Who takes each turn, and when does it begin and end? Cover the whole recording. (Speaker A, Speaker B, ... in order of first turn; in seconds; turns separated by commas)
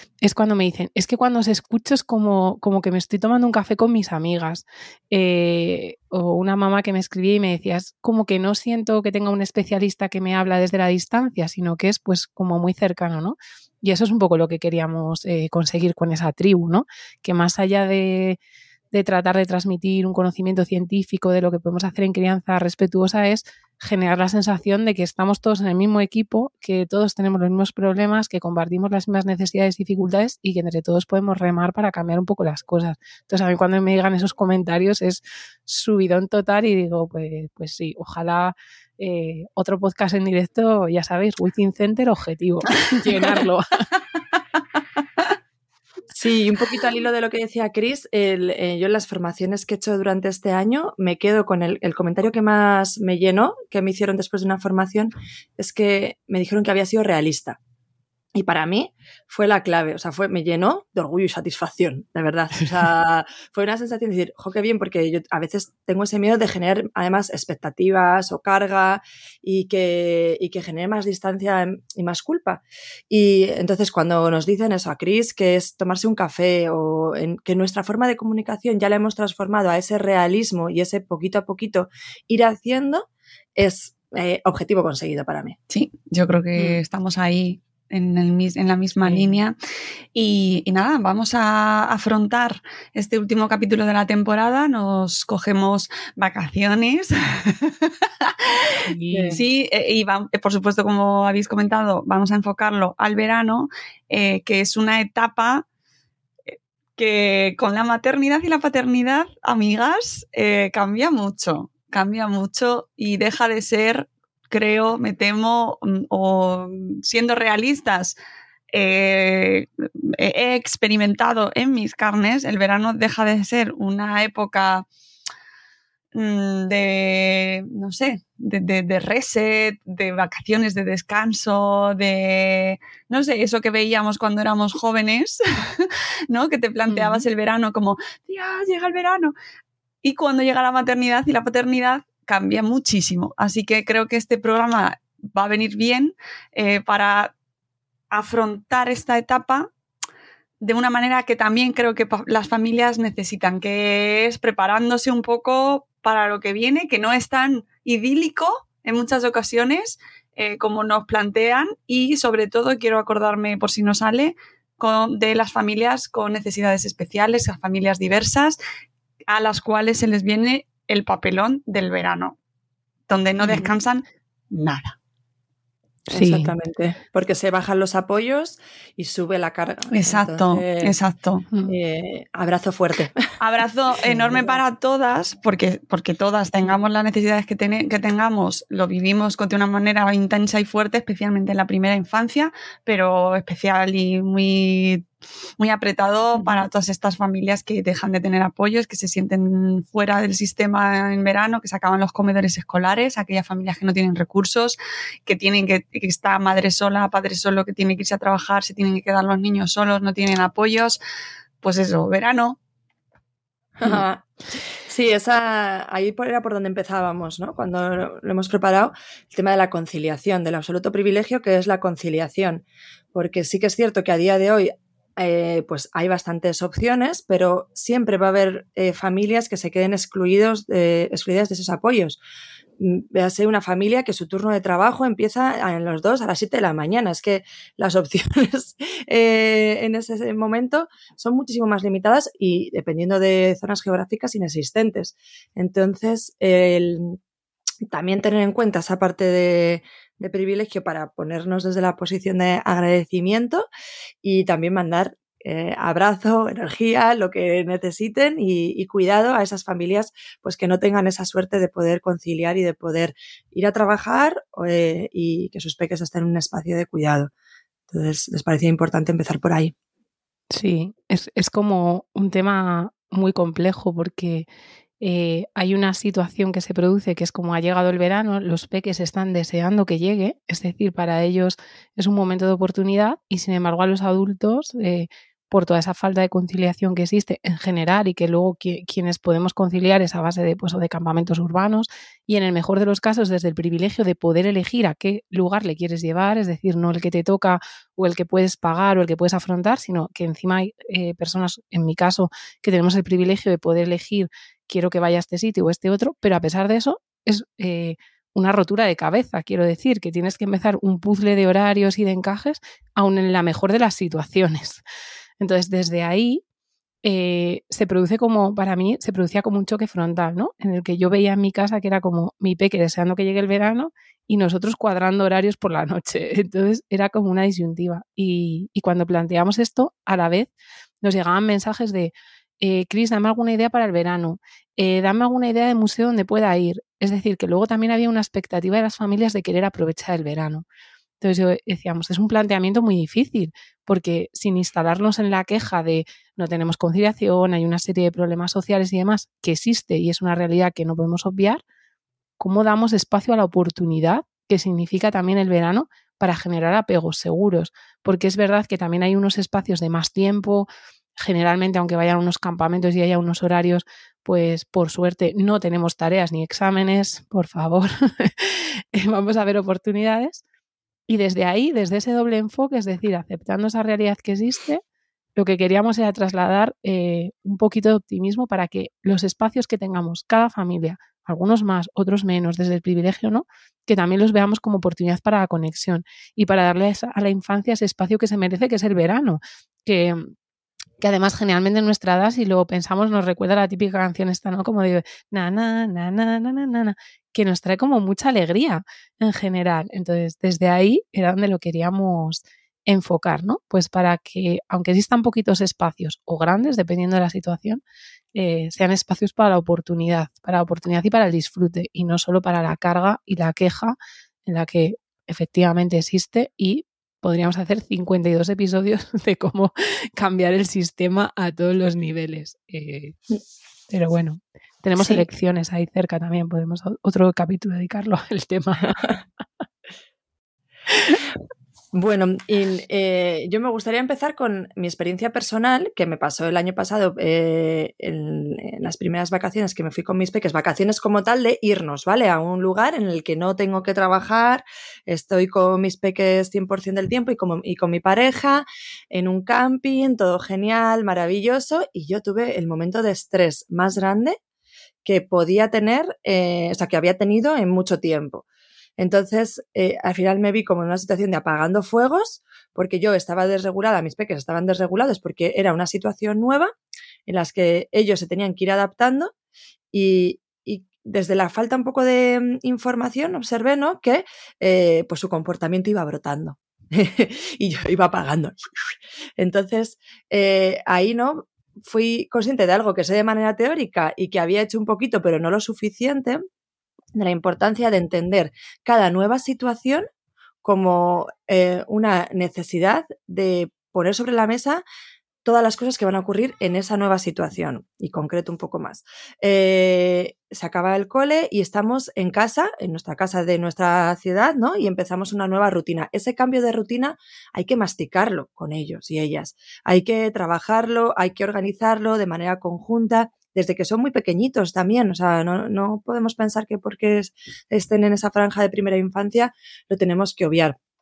Speaker A: 0.2-18.4, Speaker A: 18.9-43.8, Speaker B: 46.1-57.6, Speaker B: 58.4-85.6, Speaker C: 85.7-89.5, Speaker A: 89.0-89.3, Speaker C: 90.2-98.7, Speaker A: 98.9-99.4, Speaker B: 99.1-99.4, Speaker C: 99.3-105.7, Speaker C: 107.0-118.2, Speaker C: 118.7-124.9, Speaker C: 126.2-139.3, Speaker A: 136.9-137.3, Speaker C: 140.0-147.3, Speaker C: 148.1-149.7, Speaker C: 150.6-168.6, Speaker C: 169.3-172.4, Speaker C: 173.1-175.0, Speaker A: 176.1-176.5, Speaker B: 176.1-181.0, Speaker C: 179.9-181.5, Speaker B: 181.7-183.2, Speaker C: 183.4-195.1, Speaker B: 184.1-184.6, Speaker C: 195.6-211.0, Speaker C: 211.6-212.6, Speaker B: 213.8-214.3, Speaker B: 214.8-232.2, Speaker B: 232.8-247.2, Speaker B: 247.9-253.7, Speaker B: 254.2-267.3, Speaker B: 267.9-269.7, Speaker A: 270.5-274.5, Speaker A: 275.0-314.8, Speaker A: 315.4-316.4, Speaker A: 317.0-330.5, Speaker A: 331.0-340.6, Speaker A: 341.2-351.6, Speaker A: 352.4-360.7, Speaker A: 361.2-370.4, Speaker A: 371.1-374.8, Speaker A: 375.4-390.3, Speaker A: 391.0-407.8, Speaker A: 408.4-423.2, Speaker A: 423.9-429.0, Speaker B: 431.9-454.4, Speaker B: 455.1-458.4, Speaker B: 459.0-466.7, Speaker B: 467.3-469.3, Speaker B: 469.9-486.4, Speaker B: 487.1-490.1, Speaker B: 490.6-494.8, Speaker B: 495.4-520.8